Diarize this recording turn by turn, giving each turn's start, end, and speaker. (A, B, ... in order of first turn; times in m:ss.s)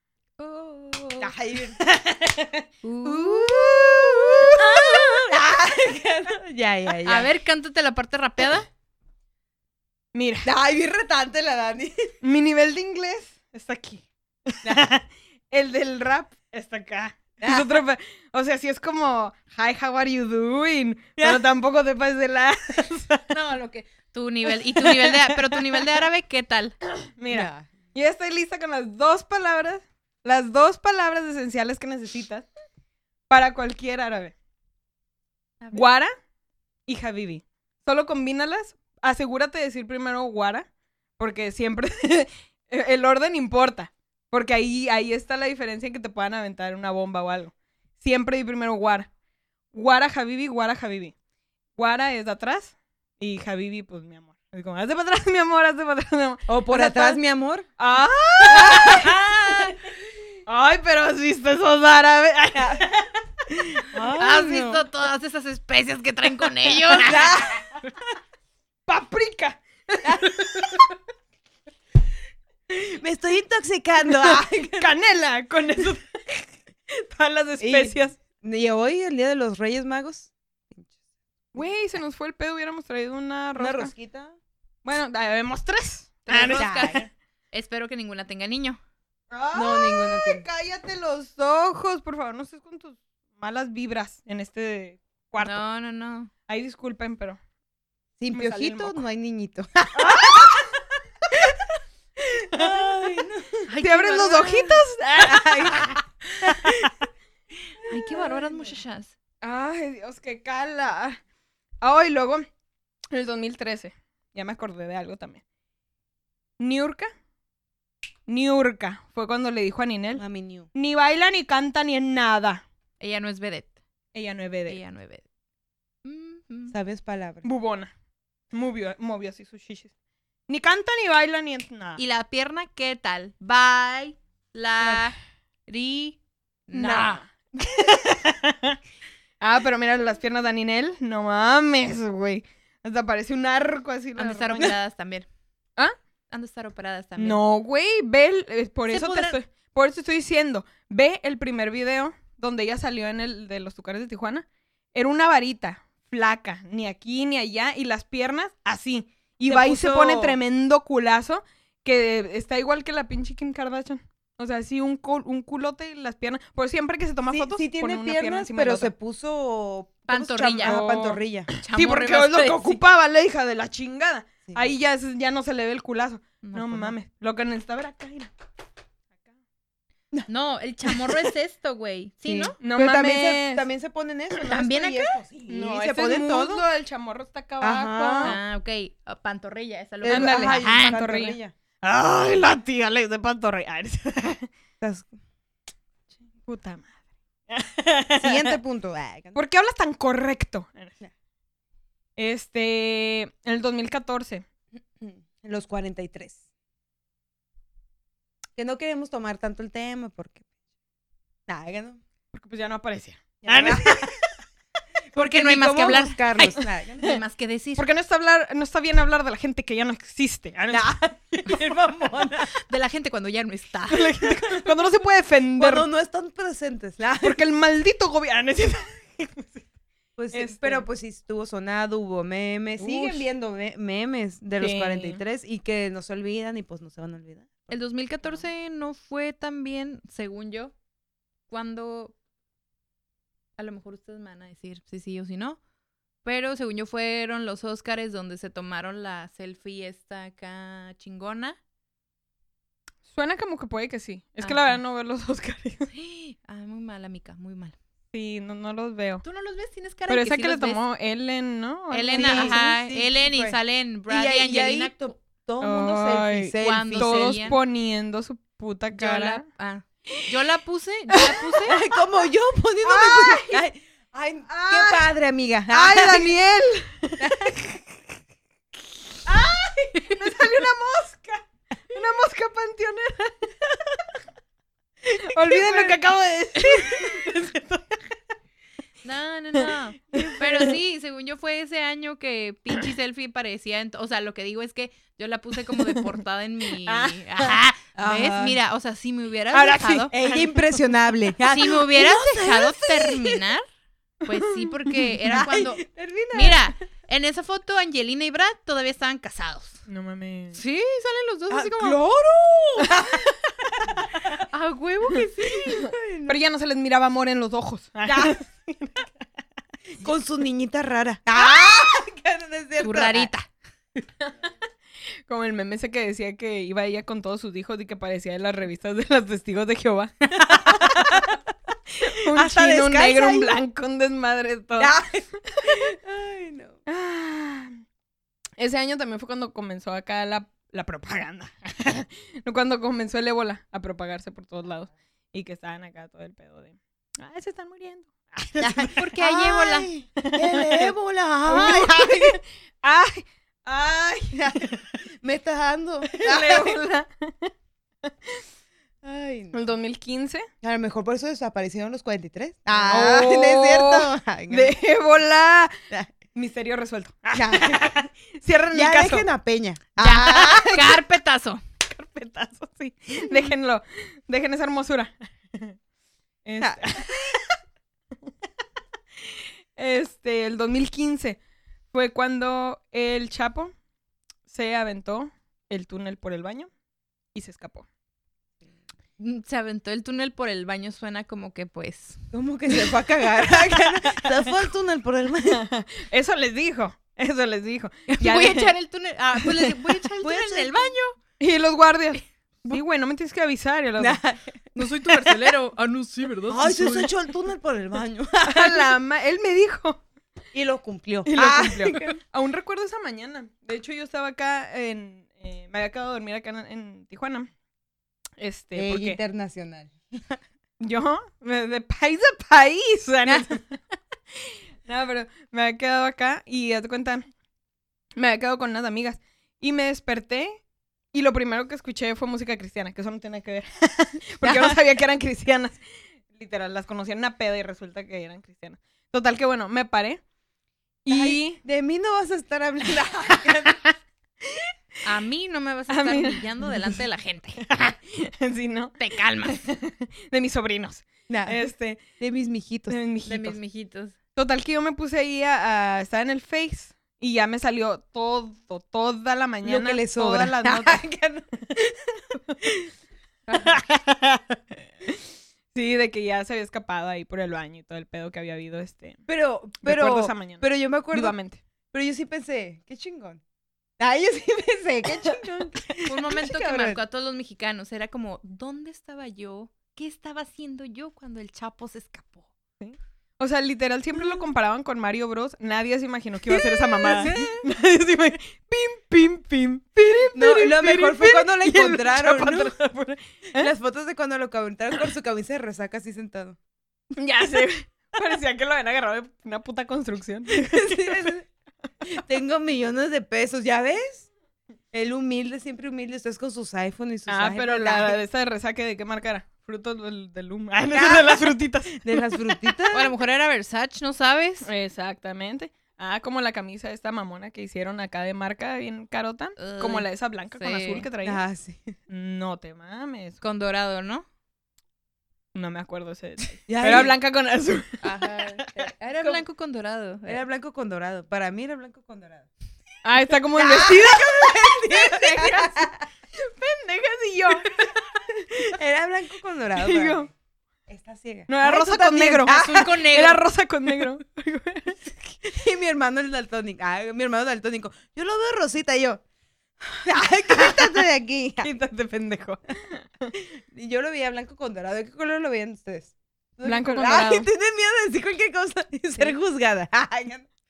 0:00.4-0:01.3 A
0:01.2-0:07.3 B
0:02.8-0:03.8 A
0:03.4-0:04.6 C
0:04.4-0:05.3 A
0:07.0-0:08.7 A
0:10.1-0:10.5 C
0:10.4-0:12.1 B
0:12.2-0:23.3 C
0:17.4-0:17.8 B
0:21.2-0:21.4 B
0:23.3-0:26.8 A
0:26.9-0:32.5 C
0:27.3-0:27.7 B
0:33.3-0:34.3 C
0:35.7-0:36.1 C
0:36.9-0:40.7 C
0:41.2-0:49.1 C
0:49.7-0:51.1 C
0:51.8-0:57.2 C
0:56.5-0:57.7 B
0:57.8-0:59.7 C
0:58.4-0:59.7 B
1:00.5-1:03.2 C
1:03.8-1:04.8 B
1:04.2-1:07.2 A
1:07.0-1:07.9 B
1:07.0-1:07.5 C
1:08.9-1:10.9 C
1:10.0-1:10.7 B
1:12.7-1:14.9 B
1:14.1-1:18.2 C
1:17.6-1:21.0 B
1:21.5-1:23.9 C
1:23.6-1:24.4 B
1:24.8-1:27.1 C
1:26.3-1:28.8 A
1:26.4-1:27.1 B
1:29.3-1:35.6 C
1:29.5-1:30.5 B
1:35.4-1:36.3 A
1:36.5-1:37.4 C
1:38.2-1:40.7 B
1:38.3-1:39.0 C
1:40.0-1:40.7 C
1:41.3-1:41.6 B
1:42.2-1:43.7 B
1:42.5-1:42.9 C
1:43.7-1:44.8 A
1:43.8-1:46.9 C
1:45.2-1:46.9 B
1:47.9-1:49.1 A
1:48.0-1:48.5 C
1:49.4-1:51.2 C
1:51.8-1:52.4 C
1:53.1-1:55.4 C
1:56.6-1:57.1 C
1:58.3-2:02.6 C
2:00.2-2:00.7 B
2:03.0-2:03.8 A
2:04.1-2:04.8 C
2:04.7-2:05.2 A
2:06.0-2:06.7 A
2:06.7-2:07.5 B
2:07.4-2:07.9 C
2:08.5-2:09.9 C
2:10.5-2:12.0 C
2:12.0-2:15.2 A
2:15.7-2:17.2 A
2:16.7-2:18.8 C
2:19.4-2:24.7 C
2:24.2-2:25.3 A
2:26.3-2:27.4 A
2:27.2-2:48.9 C
2:28.9-2:29.4 A
2:39.5-2:40.4 B
2:47.3-2:51.5 B
2:50.1-2:50.8 A
2:50.6-2:58.3 C
2:51.6-2:52.8 A
2:56.4-2:56.9 A
3:00.3-3:02.6 A
3:02.2-3:06.6 B
3:02.6-3:03.7 C
3:04.4-3:05.2 A
3:05.5-3:08.4 C
3:07.6-3:08.4 B
3:08.2-3:11.0 A
3:10.0-3:11.5 B
3:10.1-3:14.5 C
3:14.8-3:15.1 B
3:16.5-3:16.9 C
3:17.5-3:18.6 C
3:18.2-3:19.4 B
3:19.3-3:21.0 C
3:22.2-3:24.4 C
3:25.0-3:26.4 B
3:28.6-3:30.4 B
3:31.5-3:32.0 B
3:32.3-3:34.2 C
3:33.4-3:34.1 B
3:35.1-3:37.2 B
3:35.2-3:37.8 A
3:37.8-3:41.0 C
3:40.7-3:42.6 B
3:42.4-3:44.3 A
3:43.9-3:45.9 C
3:45.6-3:47.4 B
3:47.2-3:49.6 C
3:50.2-3:57.7 B
3:50.3-3:50.8 C
3:52.8-3:53.2 C
3:54.6-3:55.2 C
3:57.7-4:00.7 A
4:01.5-4:02.2 A
4:03.6-4:05.6 A
4:06.2-4:11.6 A
4:13.1-4:15.9 C
4:14.4-4:14.8 A
4:15.9-4:17.8 A
4:18.1-4:19.2 C
4:19.2-4:20.8 A
4:20.1-4:22.6 C
4:21.9-4:25.1 A
4:22.1-4:23.6 B
4:24.1-4:27.6 B
4:25.6-4:29.4 C
4:26.6-4:27.6 A
4:28.9-4:31.8 A
4:31.1-4:31.7 C
4:31.7-4:36.3 B
4:32.8-4:33.6 C
4:34.5-4:35.1 C
4:35.7-4:37.8 C
4:37.2-4:37.7 B
4:39.3-4:40.1 B
4:39.3-4:43.5 C
4:45.2-4:48.0 C
4:45.3-4:46.0 B
4:46.6-4:47.3 B
4:49.0-5:00.1 A
4:49.6-4:50.4 C
4:50.1-4:50.7 B
4:56.9-4:57.6 C
4:58.0-4:58.6 B
4:59.5-5:00.6 C
5:00.1-5:03.4 B
5:01.5-5:03.7 A
5:04.2-5:09.8 A
5:04.3-5:04.8 C
5:05.2-5:06.7 B
5:09.9-5:10.6 C
5:10.5-5:12.0 A
5:11.5-5:14.4 B
5:12.8-5:13.1 C
5:14.5-5:15.9 A
5:15.6-5:16.4 B
5:15.8-5:19.1 C
5:18.0-5:18.4 B
5:20.0-5:23.3 B
5:22.8-5:23.5 A
5:25.3-5:31.3 C
5:30.4-5:31.4 B
5:32.0-5:35.0 C
5:32.0-5:33.6 B
5:34.8-5:36.8 B
5:36.9-5:37.8 C
5:38.6-5:49.0 C
5:48.6-5:52.4 B
5:48.9-5:49.9 A
5:50.2-5:50.9 C
5:51.5-5:54.8 C
5:54.3-5:56.8 B
5:56.1-5:57.5 C
5:59.0-5:59.6 B
5:59.5-6:00.5 C
6:00.6-6:04.8 B
6:02.8-6:05.7 C
6:06.4-6:09.3 C
6:07.3-6:08.1 B
6:08.7-6:11.0 B
6:10.0-6:11.6 A
6:11.9-6:15.8 C
6:16.4-6:17.4 C
6:16.6-6:17.3 B
6:19.3-6:21.4 C
6:21.9-6:23.7 C
6:24.5-6:26.7 C
6:27.3-6:27.9 C
6:29.2-6:32.3 A
6:32.3-6:35.6 B
6:33.4-6:34.5 C
6:35.4-6:38.7 C
6:38.1-6:41.2 A
6:39.5-6:39.8 C
6:40.2-6:40.9 B
6:41.4-6:44.2 C
6:44.0-6:45.4 B
6:44.8-6:47.1 A
6:46.5-6:48.9 B
6:48.4-6:50.0 C
6:50.5-6:52.2 B
6:51.3-6:57.5 C
6:58.4-6:59.2 C
6:58.8-7:00.4 B
7:00.8-7:03.8 C
7:04.4-7:07.3 C
7:08.2-7:10.6 C
7:11.1-7:20.2 C
7:14.4-7:14.8 B
7:21.0-7:21.6 C
7:21.1-7:23.8 B
7:23.5-7:23.9 C
7:25.0-7:27.6 A
7:25.9-7:27.0 C
7:27.6-7:32.0 C
7:29.0-7:29.6 A
7:31.3-7:31.6 B
7:32.2-7:33.0 B
7:32.9-7:33.6 C
7:33.2-7:34.2 A
7:34.4-7:41.0 C
7:39.6-7:42.9 B
7:43.5-7:45.2 C
7:45.7-7:49.2 C
7:49.3-7:51.4 B
7:49.8-7:51.6 C
7:51.9-7:53.4 B
7:54.0-7:57.0 B
7:56.0-8:02.5 A
8:02.8-8:13.7 C
8:06.5-8:07.6 B
8:10.3-8:12.8 B
8:13.6-8:16.6 B
8:17.1-8:21.3 C
8:20.5-8:21.5 B
8:22.1-8:24.3 B
8:24.9-8:28.2 B
8:27.3-8:32.7 C
8:30.9-8:33.1 B
8:32.9-8:34.7 A
8:34.6-8:41.4 C
8:39.6-8:41.1 A
8:41.2-8:41.9 B
8:42.1-8:43.4 C
8:43.4-8:44.3 A
8:45.5-8:48.0 C
8:46.7-8:47.2 B
8:48.0-8:50.4 A
8:50.3-8:52.5 B
8:53.0-8:57.7 C
8:53.6-8:56.1 B
8:57.8-9:00.3 B
8:59.8-9:00.3 C
9:00.9-9:03.0 B
9:01.5-9:05.3 C
9:02.4-9:03.4 A
9:05.4-9:09.2 B
9:09.8-9:11.7 B
9:11.6-9:13.4 C
9:13.4-9:20.5 B
9:16.6-9:17.5 C
9:16.9-9:17.4 A